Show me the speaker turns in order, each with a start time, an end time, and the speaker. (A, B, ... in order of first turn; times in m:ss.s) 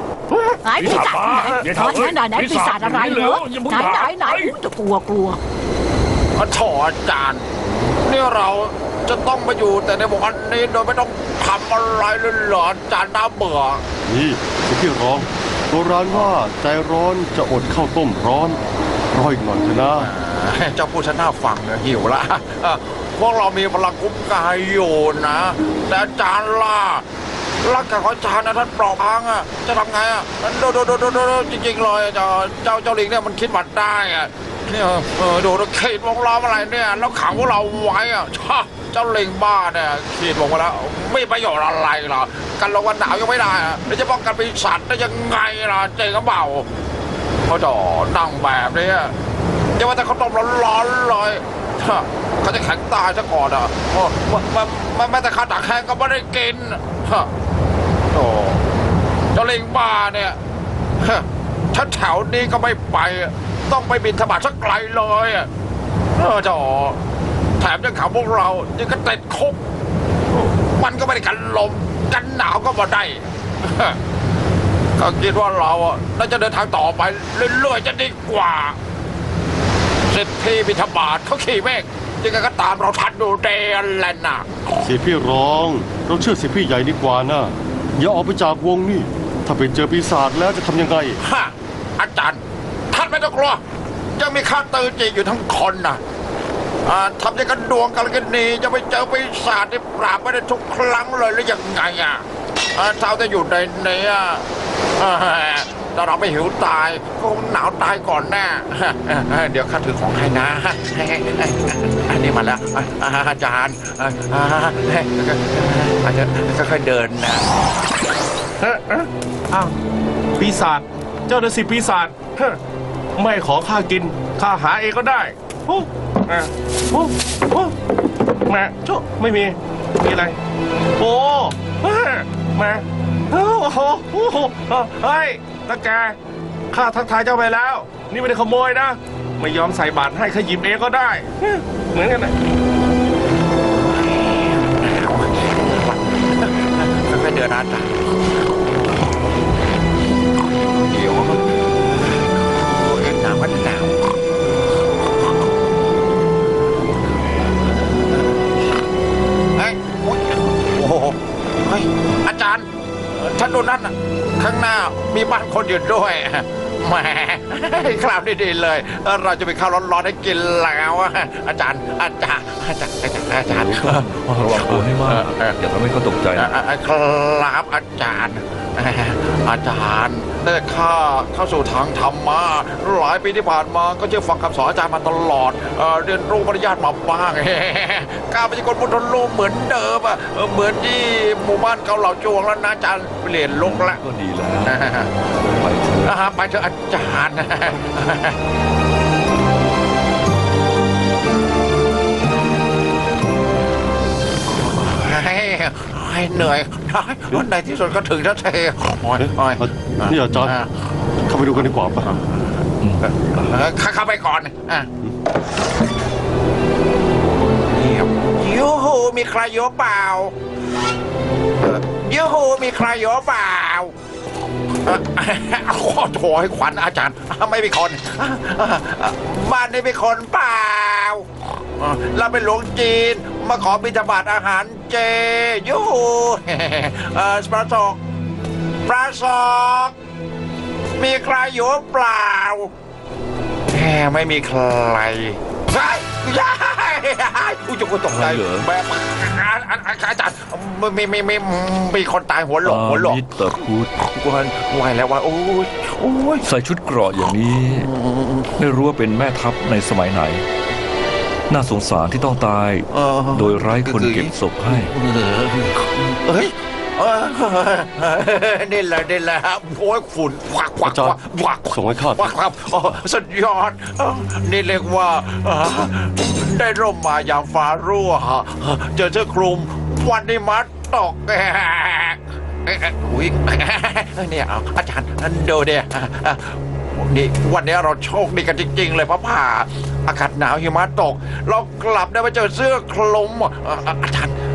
0:00.3-0:01.6 A
0:00.6-0:05.4 B
0:00.8-0:04.5 C
0:06.3-0:13.8 D
0:14.0-0:18.6 E
0:19.1-0:20.1 E
0:19.9-0:27.0 D
0:27.6-0:46.7 D
0:47.4-0:49.1 D
0:49.8-0:57.3 D
0:58.1-0:58.6 D
0:59.3-1:00.4 D
1:01.0-1:05.5 D
1:06.2-1:07.0 D
1:07.6-1:09.6 D
1:10.3-1:14.0 D
1:15.0-1:18.8 D
1:20.1-1:24.8 D
1:24.8-1:31.2 E
1:31.2-1:33.6 D
1:34.1-1:36.0 D
1:36.8-1:42.2 D
1:42.7-1:44.4 D
1:45.0-1:57.5 D
1:58.6-1:59.7 A
2:00.3-2:02.6 A
2:03.2-2:07.7 A
2:08.5-2:10.4 A
2:11.0-2:16.2 A
2:16.7-2:22.3 A
2:23.8-2:28.1 D
2:30.7-2:34.1 D
2:39.5-2:55.5 D
2:53.6-2:56.5 C
2:56.3-3:14.0 D
3:13.5-3:14.8 C
3:14.6-3:15.1 D
3:15.4-3:16.1 C
3:16.0-3:18.4 D
3:24.6-3:30.7 D
3:29.2-3:30.6 E
3:31.3-3:32.1 E
3:31.6-3:34.9 D
3:37.5-3:40.3 D
3:41.6-3:43.9 D
3:44.8-3:58.0 D
3:58.8-3:59.9 D
4:01.0-4:02.7 D
4:03.7-4:13.4 D
4:08.2-4:08.6 C
4:12.6-4:13.9 C
4:14.0-4:16.4 D
4:16.4-4:17.9 C
4:17.7-4:18.5 D
4:18.6-4:20.4 C
4:21.5-4:24.9 C
4:22.9-4:54.3 D
4:30.8-4:32.3 E